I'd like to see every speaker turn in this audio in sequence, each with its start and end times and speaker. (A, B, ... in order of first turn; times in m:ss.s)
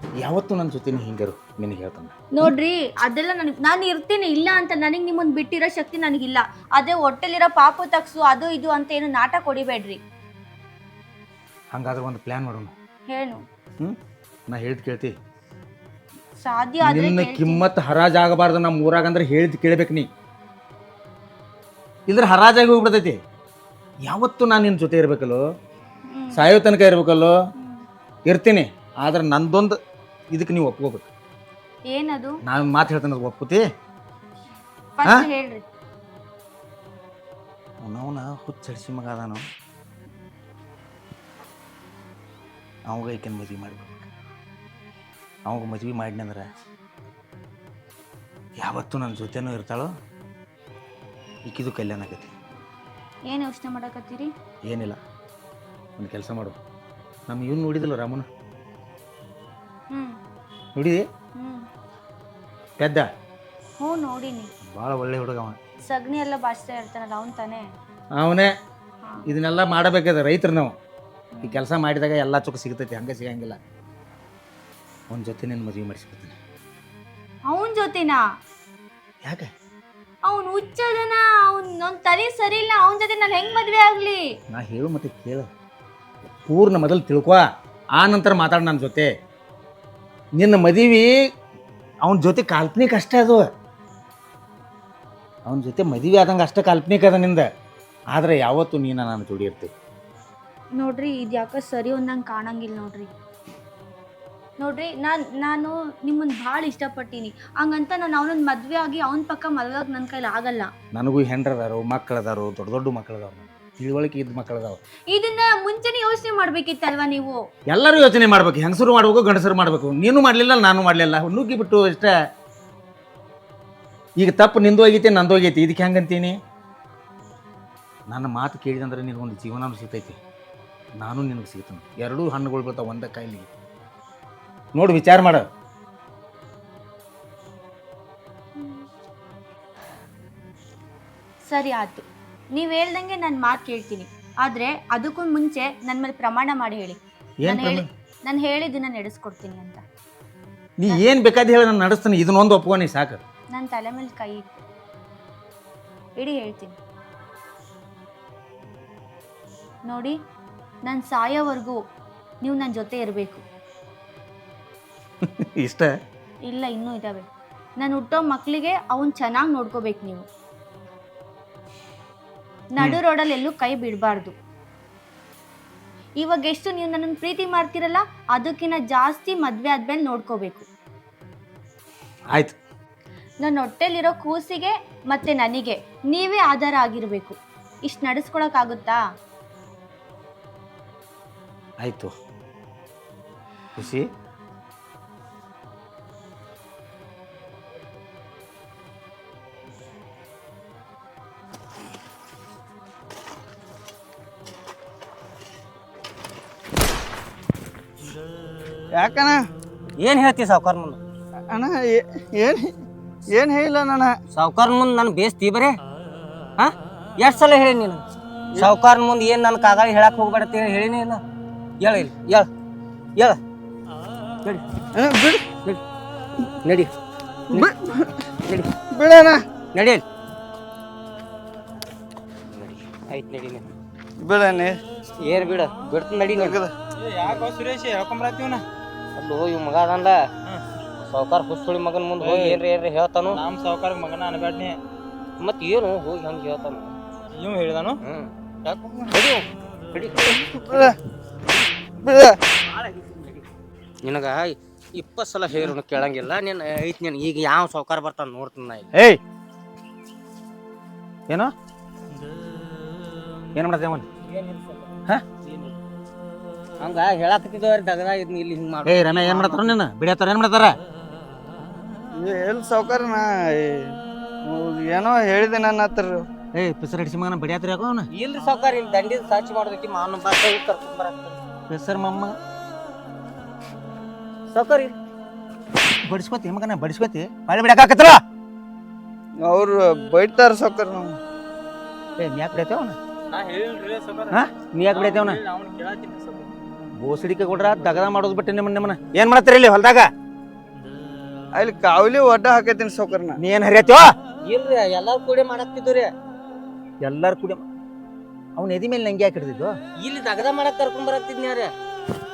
0:00.2-0:02.5 A
0:02.3-0:10.0 B
0:11.7-0:12.7 A
0:13.1-0:13.4 B
0:14.5-0:15.2 A
0:16.4-0:17.6 B
0:16.8-0:20.1 A
0:22.1-0:23.2 A
0:24.0-0:25.4 A
0:26.1-0:26.5 B
0:26.3-0:27.4 A
0:27.6-0:27.8 B
0:28.3-0:29.8 A
0:30.3-0:31.1 A
0:31.9-0:32.4 B
0:32.4-0:33.6 A
0:35.0-0:35.6 B
0:37.8-0:39.4 A
0:42.9-0:44.1 A
0:45.5-0:46.5 A
0:48.6-0:49.9 A
0:51.5-0:52.3 A
0:53.3-0:54.3 B
0:54.6-0:55.0 A
0:56.0-0:56.6 A
0:57.3-0:58.3 A
0:59.9-1:00.2 B
1:00.8-1:01.0 A
1:01.4-1:01.7 B
1:02.8-1:03.1 A
1:03.8-1:04.5 B
1:04.6-1:05.6 A
1:05.9-1:07.7 B
1:08.2-1:08.5 A
1:09.0-1:09.3 B
1:09.3-1:10.8 A
1:11.3-1:11.6 B
1:11.4-1:13.6 A
1:15.1-1:16.4 A
1:17.5-1:18.2 B
1:19.2-1:19.5 A
1:20.3-1:24.3 B
1:24.5-1:25.5 A
1:26.5-1:29.1 A
1:30.4-1:31.2 A
1:32.0-1:33.5 A
1:35.4-1:37.5 A
1:38.1-1:39.7 A
1:40.8-1:43.1 B
1:44.6-1:50.7 B
1:50.9-1:54.8 A
1:55.1-1:57.5 B
1:57.7-2:02.1 A
2:04.2-2:06.4 A
2:08.1-2:10.2 A
2:11.0-2:13.5 A
2:14.8-2:15.5 A
2:18.6-2:18.9 B
2:21.5-2:29.8 B
2:27.4-2:27.9 A
2:30.8-2:33.2 A
2:33.5-2:34.6 B
2:36.2-2:36.8 B
2:39.9-2:40.2 B
2:40.9-2:41.8 B
2:42.4-2:43.4 B
2:45.2-2:46.0 A
2:46.5-2:47.3 B
2:47.8-2:50.3 B
2:52.7-2:54.4 B
2:56.2-3:00.7 B
3:02.3-3:02.6 A
3:03.4-3:09.0 B
3:11.8-3:12.1 A
3:13.8-3:14.1 A
3:28.9-3:29.4 C
3:30.0-3:31.0 D
3:31.5-3:32.8 C
3:33.3-3:34.2 C
3:34.3-3:35.8 D
3:36.6-3:38.0 D
3:38.6-3:41.2 D
3:41.8-3:42.5 D
3:44.9-3:45.5 C
3:46.4-3:46.9 D
3:47.5-3:48.2 C
3:48.9-3:49.4 C
3:49.7-3:50.0 D
3:52.5-3:53.6 D
3:54.2-3:54.8 C
3:55.2-3:56.6 D
3:56.3-3:56.7 C
3:57.0-3:58.6 E
3:59.2-4:00.3 D
4:01.0-4:03.4 D
4:02.2-4:02.6 E
4:03.3-4:04.8 E
4:05.4-4:07.0 D
4:07.3-4:08.0 E
4:08.0-4:10.9 D
4:10.6-4:11.0 C
4:12.0-4:12.4 C
4:12.7-4:13.4 D
4:14.0-4:18.9 D
4:18.9-4:19.2 A
4:23.6-4:24.1 A
4:24.2-4:25.7 D
4:26.8-4:29.7 D
4:28.9-4:30.8 A
4:32.2-4:36.2 C
4:36.6-4:38.1 A
4:38.1-4:41.4 D
4:41.7-4:42.4 A
4:44.5-4:45.0 D
4:46.0-4:48.2 A
4:49.4-4:51.2 C
4:52.2-4:53.0 A
4:53.3-4:56.5 E
4:54.3-4:55.4 A
4:57.0-5:00.1 A
5:01.5-5:03.4 C
5:03.4-5:04.1 A
5:04.4-5:06.1 D
5:07.0-5:07.6 A
5:08.6-5:09.8 A
5:10.0-5:11.7 D